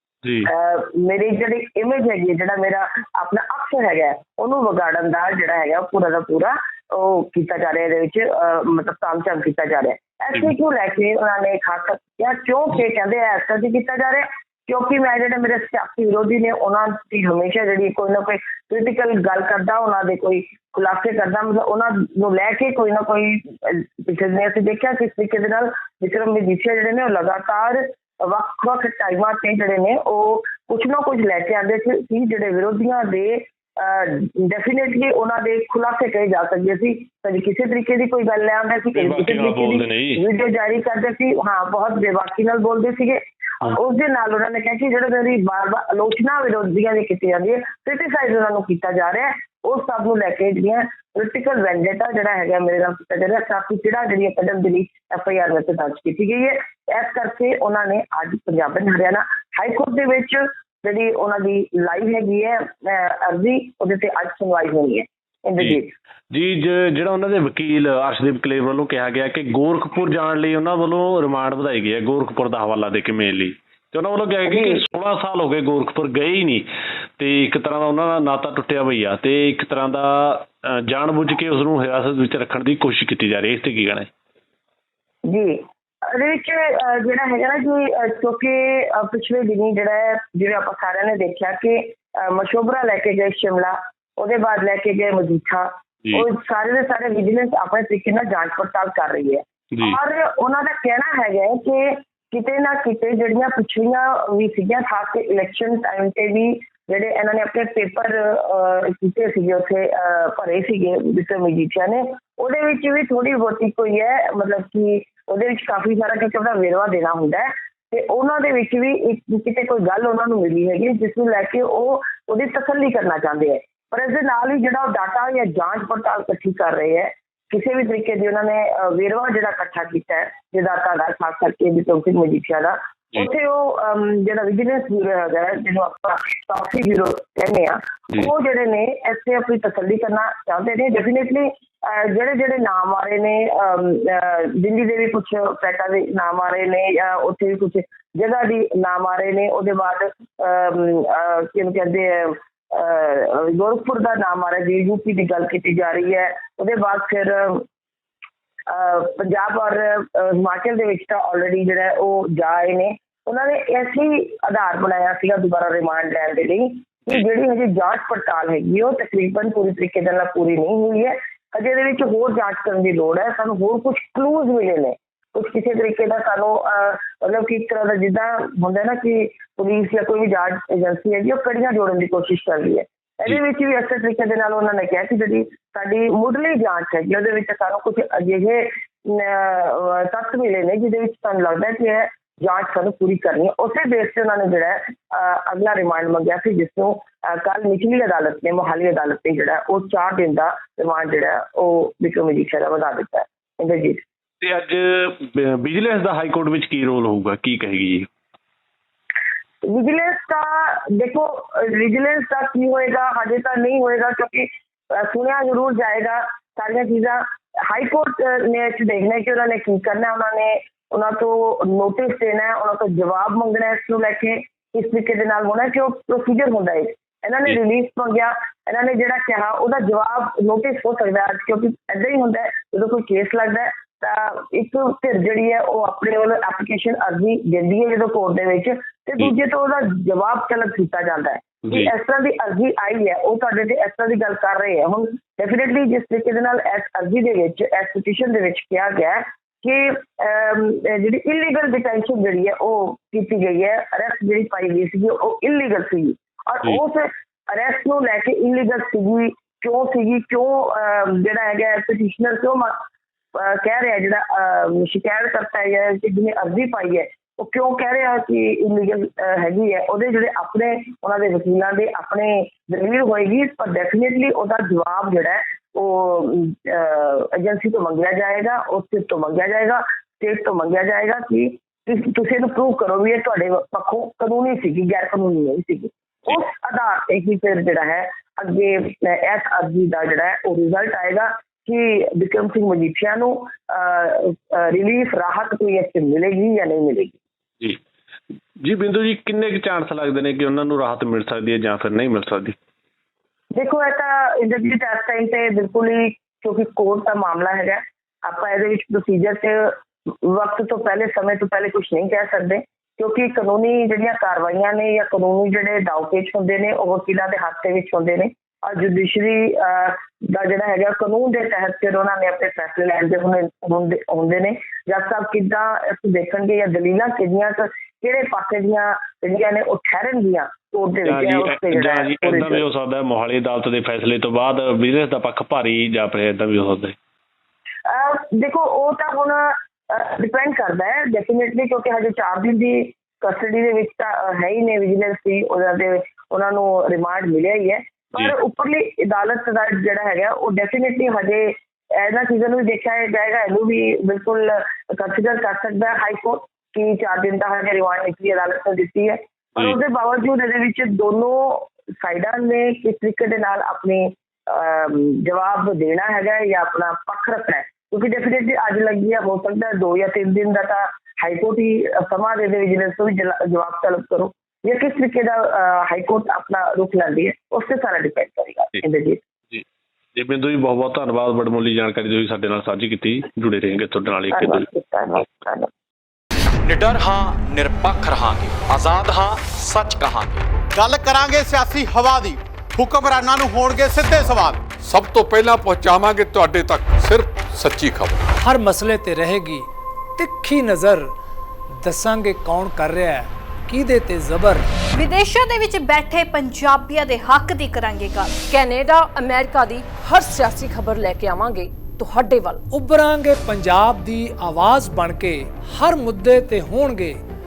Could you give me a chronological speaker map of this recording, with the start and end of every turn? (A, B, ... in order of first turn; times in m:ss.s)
0:00.4-1:05.9 A
0:39.0-0:40.2 B
1:06.3-1:16.7 B
1:14.5-1:14.8 A
1:17.2-1:24.1 B
1:25.3-2:37.6 A
2:38.7-3:24.0 A
3:24.4-3:28.1 B
3:29.6-4:22.7 A
4:23.3-4:57.2 A
4:58.6-5:02.6 B
5:03.6-5:32.6 A
5:31.0-5:37.0 B
5:37.9-6:19.2 A
6:20.2-6:24.7 B
6:24.3-6:25.7 A
6:26.6-6:30.5 C
6:30.7-6:34.6 D
6:34.8-6:38.2 E
6:38.4-6:41.1 F
6:41.8-6:44.7 F
6:45.0-6:48.2 G
6:48.5-6:52.6 H
6:52.7-6:57.2 F